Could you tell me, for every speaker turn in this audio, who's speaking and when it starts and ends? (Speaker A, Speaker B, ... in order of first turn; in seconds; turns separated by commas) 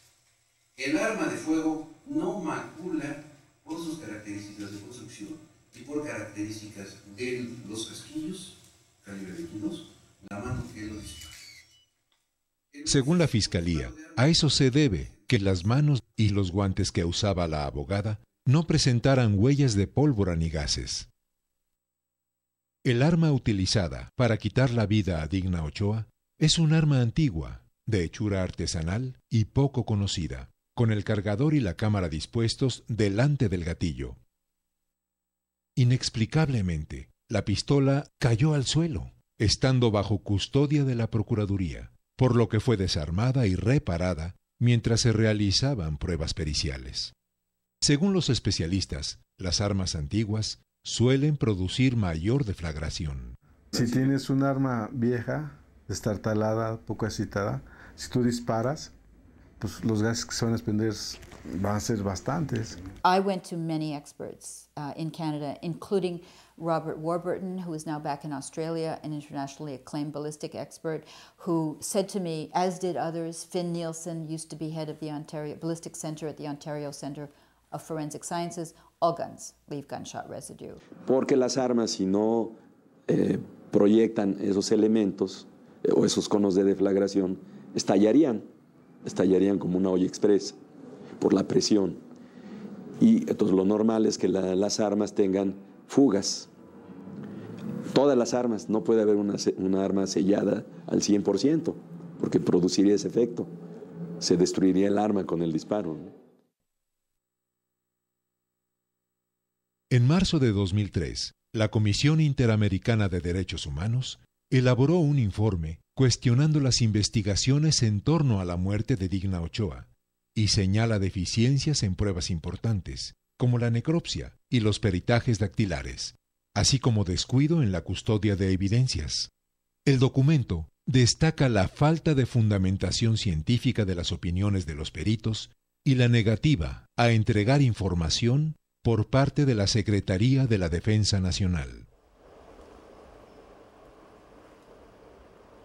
Speaker A: 0.8-11.4, Speaker A: 12.7-14.2, Speaker B: 12.8-21.1, Speaker B: 22.8-34.2, Speaker B: 35.8-47.1, Speaker B: 47.8-53.4, Speaker C: 53.7-58.9, Speaker C: 59.6-62.8, Speaker D: 63.0-80.8, Speaker E: 81.0-88.5, Speaker E: 89.0-90.6, Speaker E: 91.2-92.0, Speaker E: 93.0-96.5, Speaker E: 97.9-103.5, Speaker E: 104.2-106.1, Speaker B: 109.9-129.3, Speaker B: 129.9-141.9